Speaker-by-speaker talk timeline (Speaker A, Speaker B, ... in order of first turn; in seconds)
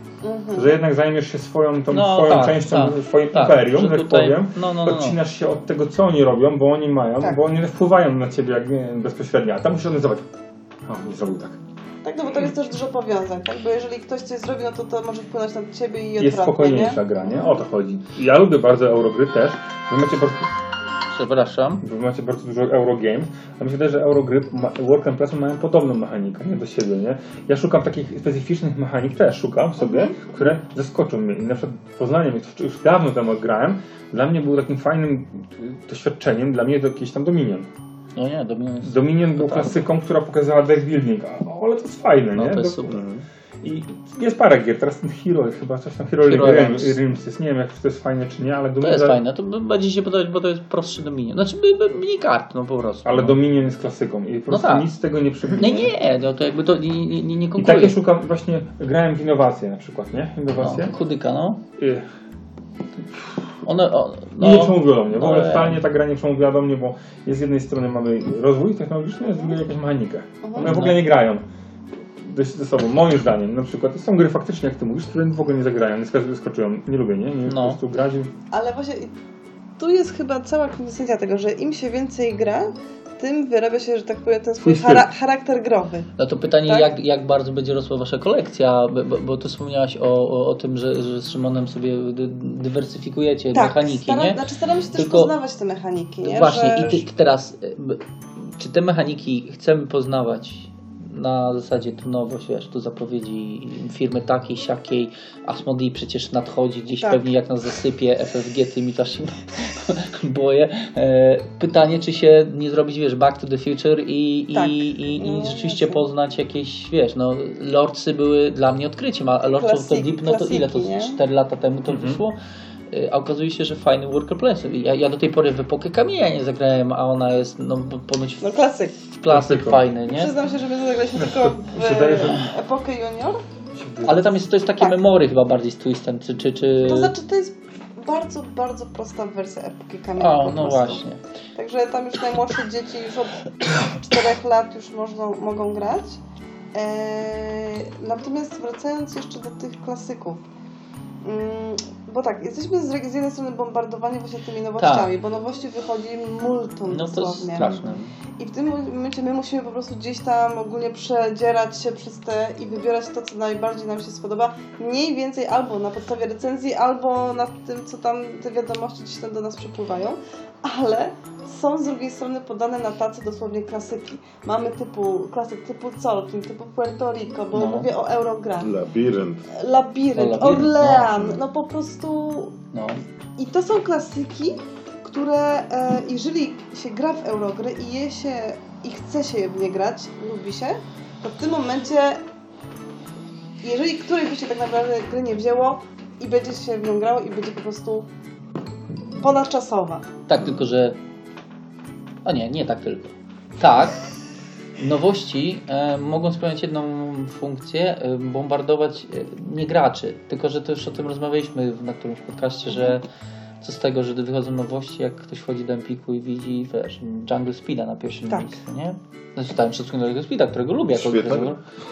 Speaker A: 0.2-0.8, 12.0-17.0, 29.8-30.2, 69.2-69.6, 70.4-70.8, 78.5-79.1, 79.8-86.1, 86.7-86.9, 93.5-97.0, 107.0-107.3, 114.5-116.0, 119.6-121.2, 128.4-129.0, 130.1-133.4, 136.8-141.1, 141.6-146.2, 146.7-150.4, 151.2-157.7, 158.4-178.7, 179.5-182.6, 183.4-192.2, 193.6-198.1, 199.2-200.1
Speaker B: 0.5-10.3, 10.9-11.6, 16.2-20.5, 21.8-37.7, 38.8-42.9, 43.6-49.2, 53.0-55.9, 57.6-60.9, 61.8-62.1, 64.4-71.5, 72.2-78.3, 84.6-85.1, 121.9-122.2, 129.3-129.8, 131.2-132.5, 133.7-134.2
Speaker C: 1.9-5.2, 21.1-21.8, 38.2-39.8, 42.4-43.0, 46.2-47.0, 48.8-53.4, 54.5-54.9, 55.6-58.0, 60.6-61.6, 63.6-65.8, 70.6-71.0, 77.5-77.8, 86.2-94.4, 94.9-95.3, 96.2-122.4, 122.9-128.6, 129.2-130.4, 134.0-137.1, 140.2-141.2, 154.8-155.1, 156.9-158.0, 177.5-177.9, 180.2-181.4, 182.7-183.0, 200.3-201.0, 202.2-204.0, 204.8-213.1, 213.6-221.6
Speaker D: 42.9-43.2, 157.6-158.1, 178.6-179.5, 220.9-221.6